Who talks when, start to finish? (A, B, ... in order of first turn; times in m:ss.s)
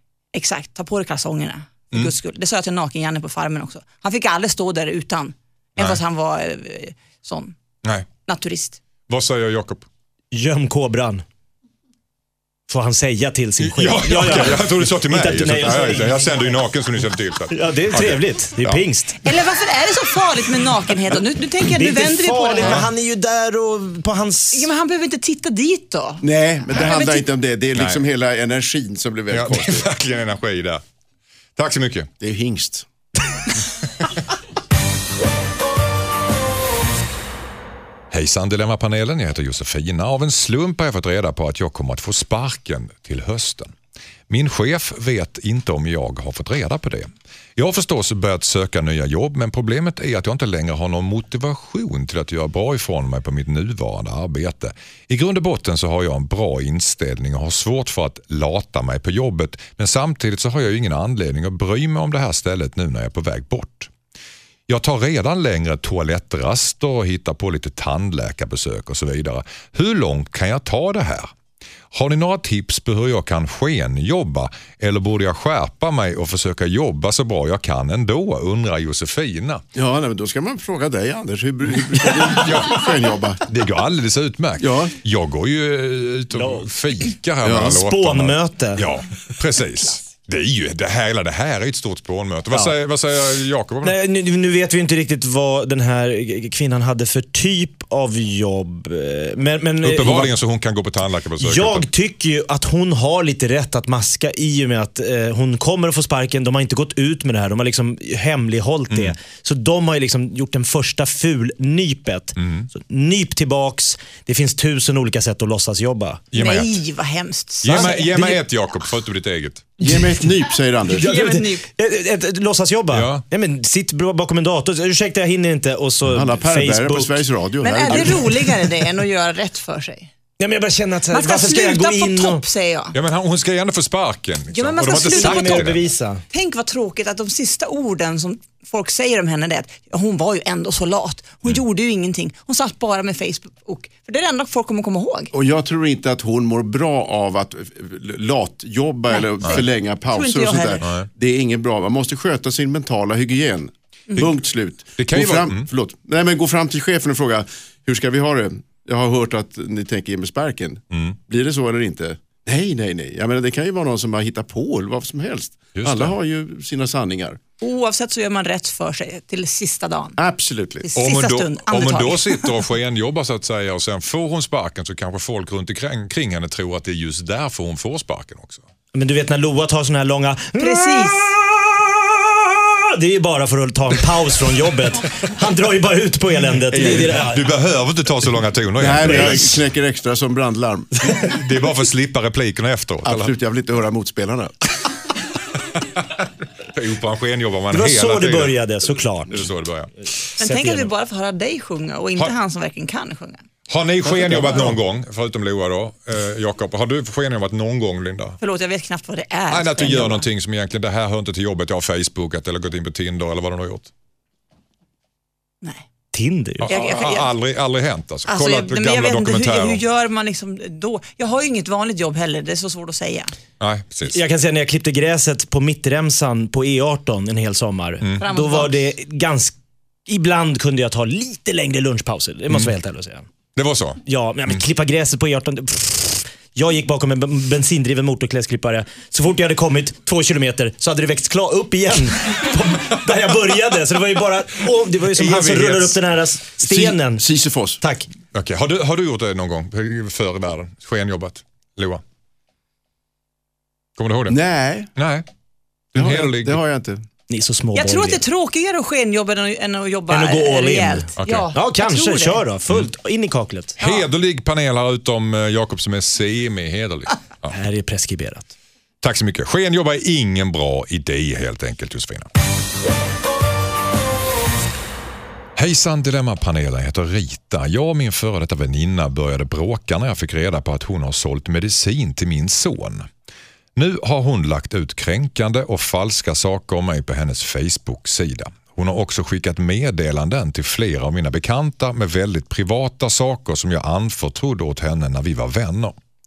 0:00.3-0:07.5 A
0:08.3-0:08.8 A
0:09.1-0:09.8 B
0:10.3-0:11.2 C
0:12.7-0:16.3 C
0:13.6-0:18.8 B
0:17.5-0:19.2 C
0:19.2-0:22.9 A
0:21.7-0:24.7 C
0:24.5-0:27.3 A
0:26.2-0:29.9 D
0:27.7-0:28.0 B
0:29.3-0:30.8 B
0:31.6-0:32.1 B
0:32.2-0:32.9 D
0:38.1-0:43.7 B
0:44.3-1:03.9 B
1:04.7-1:11.3 B
1:11.9-1:19.6 B
1:19.7-1:23.4 D
1:22.3-1:22.9 B
1:23.4-1:34.0 B
1:24.6-1:24.9 D
1:26.3-1:26.7 C
1:27.4-1:27.8 D
1:27.5-1:28.8 C
1:33.8-1:40.3 C
1:39.8-1:41.9 B
1:41.4-1:56.2 C
1:48.9-1:49.1 B
1:52.4-1:52.7 B
1:56.3-1:56.8 B
1:56.3-1:58.4 A
1:57.6-1:59.7 B
1:57.7-1:58.4 C
1:59.8-2:01.1 D
1:59.8-2:00.2 C
2:00.9-2:07.2 C
2:00.9-2:01.7 A
2:02.9-2:03.2 B
2:06.1-2:08.4 D
2:07.6-2:10.1 A
2:07.9-2:08.6 C
2:10.4-2:12.4 C
2:11.1-2:12.9 A
2:12.9-2:15.9 B
2:14.5-2:15.7 A
2:15.1-2:16.2 C
2:16.3-2:25.3 A
2:25.3-2:47.4 D
2:29.1-2:30.9 A
2:30.8-2:31.1 B
2:35.0-2:35.7 B
2:40.9-2:41.2 B
2:45.8-2:46.1 B
2:47.6-2:50.2 A
2:50.2-2:50.9 D
2:50.8-2:52.6 A
2:51.0-2:58.6 B
2:58.9-3:07.4 C
3:00.6-3:01.3 A
3:06.7-3:09.6 B
3:08.8-3:11.2 D
3:09.0-3:09.4 C
3:11.2-3:13.3 B
3:13.0-3:14.6 D
3:16.0-3:18.6 B
3:17.7-3:19.5 C
3:19.3-3:19.9 B
3:20.4-3:20.9 C
3:20.4-3:23.4 A
3:23.7-3:28.4 B
3:28.4-3:30.2 A
3:29.5-3:33.9 B
3:36.1-3:36.7 C
3:36.6-3:39.8 B
3:36.7-3:37.3 A
3:38.2-3:43.3 A
3:43.6-3:44.2 B
3:44.0-3:49.5 C
3:48.2-3:48.8 A
3:50.1-3:53.2 C
3:53.5-3:54.6 B
3:54.0-4:07.2 C
4:05.1-4:06.0 B
4:06.6-4:07.8 D
4:07.8-4:08.1 C
4:08.3-4:12.0 B
4:14.0-4:14.4 B
4:14.3-4:14.9 D
4:15.0-4:15.2 B
4:15.9-4:16.6 B
4:15.9-4:17.0 D
4:17.3-4:18.2 C
4:17.7-4:22.4 A
4:20.1-4:23.8 C
4:21.2-4:21.5 B
4:23.8-4:27.6 B
4:23.8-4:24.0 A
4:27.5-4:28.5 C
4:29.0-4:32.3 B
4:35.6-4:43.1 B
4:43.8-4:56.0 B